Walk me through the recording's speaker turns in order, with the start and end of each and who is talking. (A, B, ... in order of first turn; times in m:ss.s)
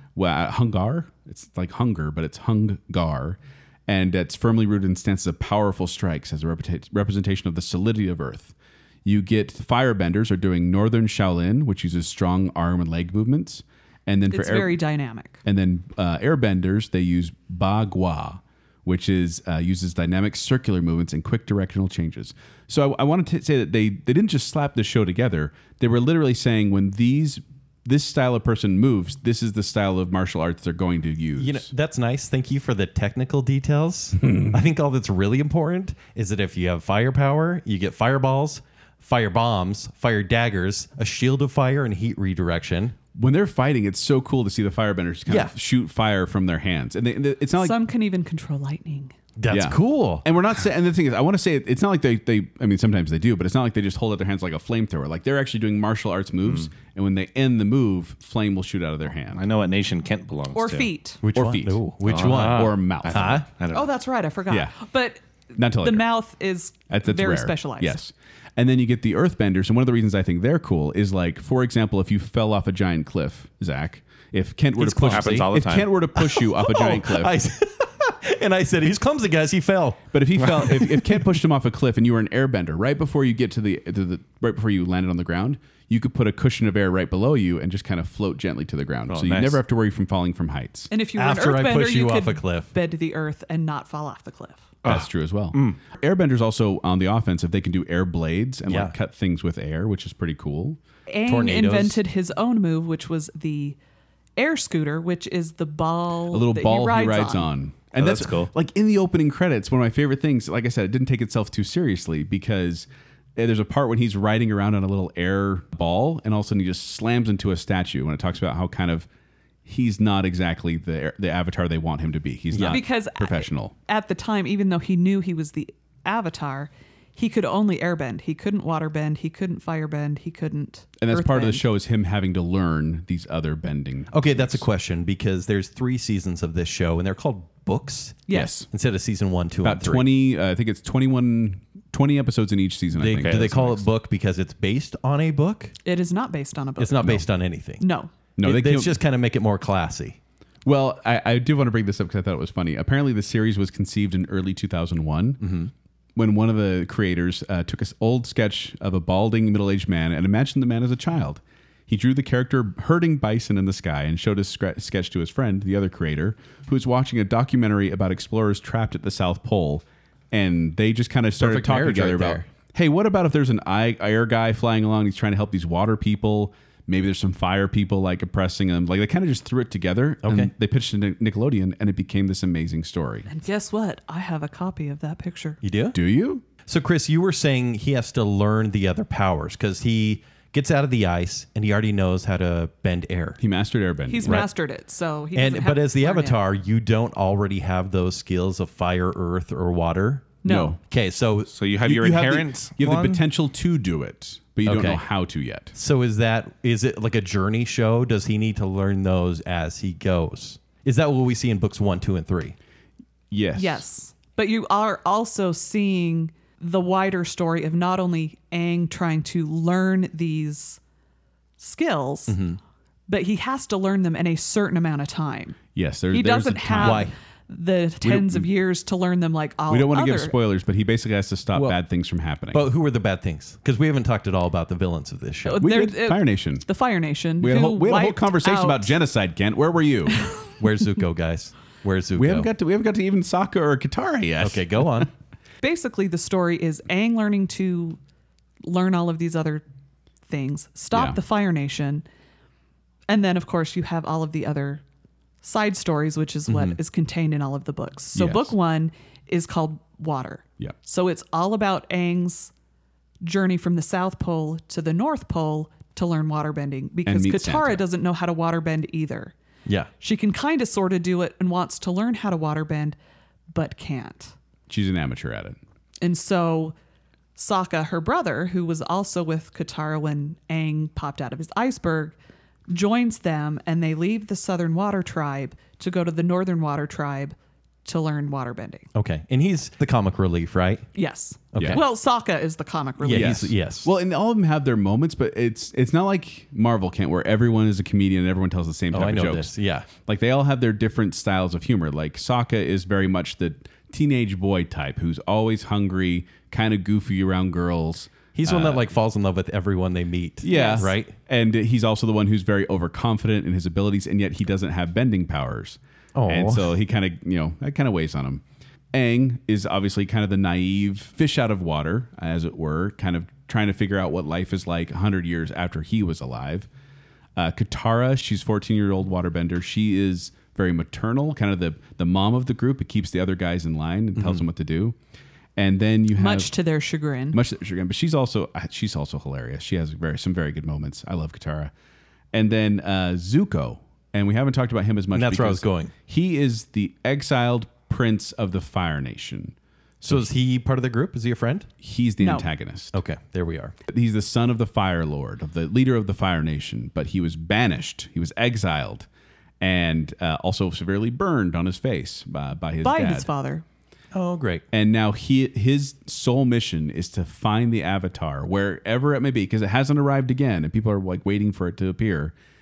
0:00.2-0:08.5 A
0:09.0-0:14.8 A
0:14.3-0:15.4 B
0:15.4-0:31.7 A
0:31.4-0:43.0 C
0:43.2-0:47.8 A
0:45.3-0:45.5 C
0:47.6-0:49.1 B
0:49.4-0:50.3 C
0:49.5-0:59.4 A
0:59.3-1:00.9 D
1:00.5-1:01.2 B
1:01.2-1:03.5 C
1:01.3-1:03.4 A
1:02.0-1:03.9 D
1:03.7-1:08.0 B
1:05.6-1:06.0 A
1:06.9-1:17.4 A
1:14.8-1:15.5 C
1:15.0-1:15.9 D
1:16.2-1:21.2 C
1:20.1-1:30.9 A
1:29.1-1:29.6 D
1:30.9-1:34.6 B
1:31.2-1:32.7 C
1:34.8-1:35.8 D
1:34.8-1:40.8 A
1:38.7-1:38.9 C
1:41.1-1:43.8 B
1:41.3-1:42.0 C
1:44.4-1:47.5 B
1:46.3-1:59.1 A
1:48.0-1:48.5 D
1:59.6-2:03.7 A
2:02.5-2:02.8 C
2:02.6-2:11.7 B
2:11.0-2:14.7 A
2:14.1-2:20.1 C
2:18.3-2:18.6 B
2:18.3-2:18.7 A
2:19.6-2:23.8 A
2:22.9-2:25.8 C
2:23.2-2:23.5 D
2:25.8-2:27.2 B
2:26.8-2:27.8 C
2:27.8-2:28.1 B
2:28.4-2:29.0 A
2:28.4-2:30.2 C
2:30.6-2:35.4 A
2:35.4-2:35.7 C
2:36.2-3:03.3 A
2:51.4-2:52.5 C
3:00.2-3:00.5 C
3:03.3-3:05.6 B
3:05.6-3:06.0 C
3:05.9-3:06.5 A
3:06.6-3:13.4 C
3:13.4-3:14.5 A
3:14.1-3:16.4 B
3:14.2-3:14.5 C
3:15.4-3:21.5 C
3:20.4-3:20.8 B
3:20.5-3:20.8 A
3:21.5-3:23.2 D
3:21.8-3:25.8 A
3:24.6-3:25.0 C
3:25.8-3:32.6 C
3:33.3-3:33.8 A
3:33.6-3:40.8 B
3:41.6-3:42.4 B
3:42.3-3:42.6 C
3:43.1-3:45.6 B
3:45.8-3:47.1 A
3:46.1-3:50.4 B
3:46.8-3:47.1 C
3:48.0-3:48.5 A
3:49.7-3:52.7 A
3:52.5-3:55.6 C
3:55.4-3:59.0 B
3:55.6-3:56.7 A
3:57.4-4:00.3 A
4:00.6-4:02.5 C
4:02.2-4:05.1 A
4:04.4-4:05.1 C
4:05.6-4:08.0 B
4:08.6-4:09.6 B
4:10.3-4:12.0 B
4:10.9-4:11.2 A
4:13.1-4:14.8 B
4:15.4-4:22.5 B
4:16.5-4:16.8 C
4:18.2-4:18.6 A
4:23.2-4:29.3 B
4:27.0-4:27.8 A
4:30.0-4:33.0 B
4:33.5-4:34.4 B
4:34.7-4:35.6 A
4:36.0-4:36.8 B
4:37.4-4:42.2 B
4:42.7-4:48.9 B
4:48.9-4:50.9 C
4:51.0-4:53.5 B
4:51.5-4:51.8 C
4:51.6-4:51.8 A
4:53.0-4:53.9 C
4:53.1-5:08.9 A
4:58.9-4:59.9 C
5:08.4-5:11.1 C
5:10.4-5:26.7 A
5:10.5-5:10.9 B
5:16.2-5:16.7 C
5:27.4-5:35.0 A
5:34.2-5:34.4 C
5:35.6-5:36.5 A
5:36.2-5:37.4 B
5:37.3-5:41.7 A
5:42.3-5:50.3 A
5:45.1-5:45.9 C
5:50.1-5:51.7 C
5:51.8-5:53.0 A
5:52.2-5:52.5 B
5:52.9-5:53.8 C
5:53.9-5:59.1 A
5:59.6-6:03.3 A
6:02.8-6:03.6 B
6:04.1-6:04.6 C
6:04.7-6:12.3 A